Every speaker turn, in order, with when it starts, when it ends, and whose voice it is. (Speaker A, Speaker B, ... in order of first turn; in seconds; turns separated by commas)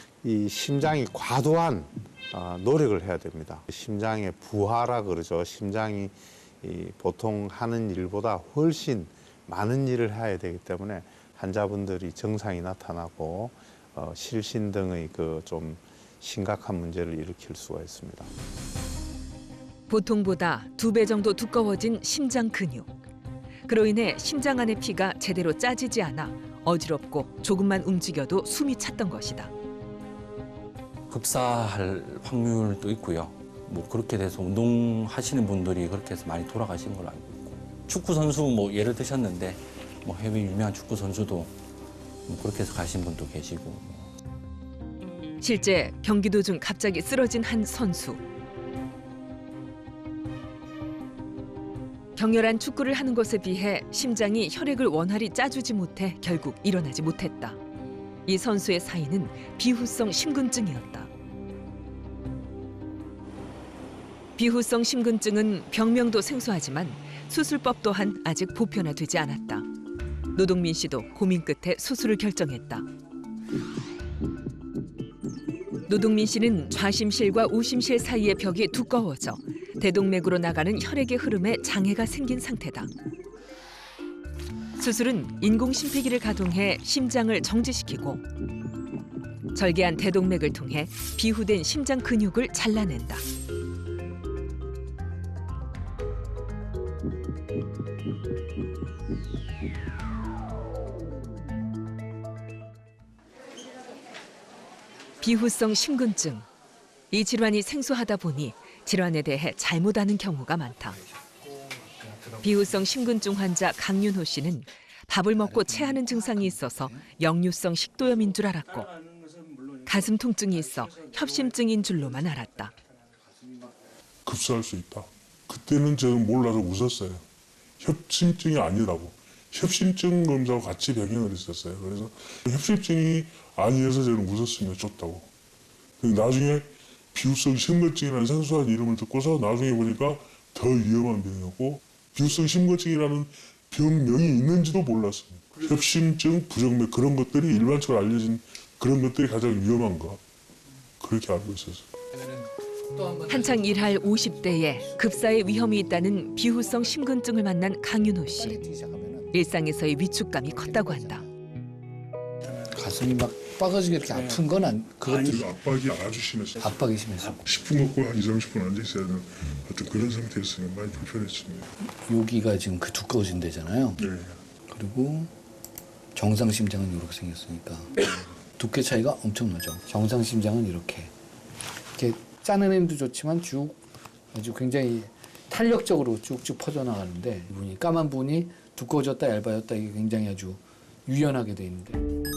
Speaker A: 0.2-18.3, Speaker B: 19.9-22.9, Speaker B: 23.7-29.5, Speaker C: 31.1-41.5, Speaker C: 42.3-44.1, Speaker B: 45.4-48.2, Speaker B: 52.2-57.6, Speaker B: 58.3-61.1, Speaker B: 64.4-69.7, Speaker B: 70.3-72.9, Speaker B: 75.9-82.9, Speaker B: 84.8-88.2, Speaker B: 89.5-93.2, Speaker B: 105.2-106.5, Speaker B: 107.1-111.0, Speaker D: 111.2-112.7, Speaker B: 112.4-119.0, Speaker D: 115.4-117.1, Speaker B: 119.8-122.7, Speaker E: 124.3-127.2, Speaker E: 127.8-135.3, Speaker E: 136.0-150.2, Speaker E: 151.0-151.9, Speaker D: 152.1-155.5, Speaker B: 153.3-158.6, Speaker D: 158.4-159.5, Speaker B: 159.3-161.2, Speaker D: 160.4-161.3, Speaker D: 162.7-165.5, Speaker E: 165.0-171.7, Speaker D: 166.6-167.4, Speaker D: 171.8-174.0, Speaker E: 174.0-174.4, Speaker D: 174.7-175.3, Speaker D: 176.2-181.1, Speaker D: 182.0-183.8, Speaker D: 184.3-192.0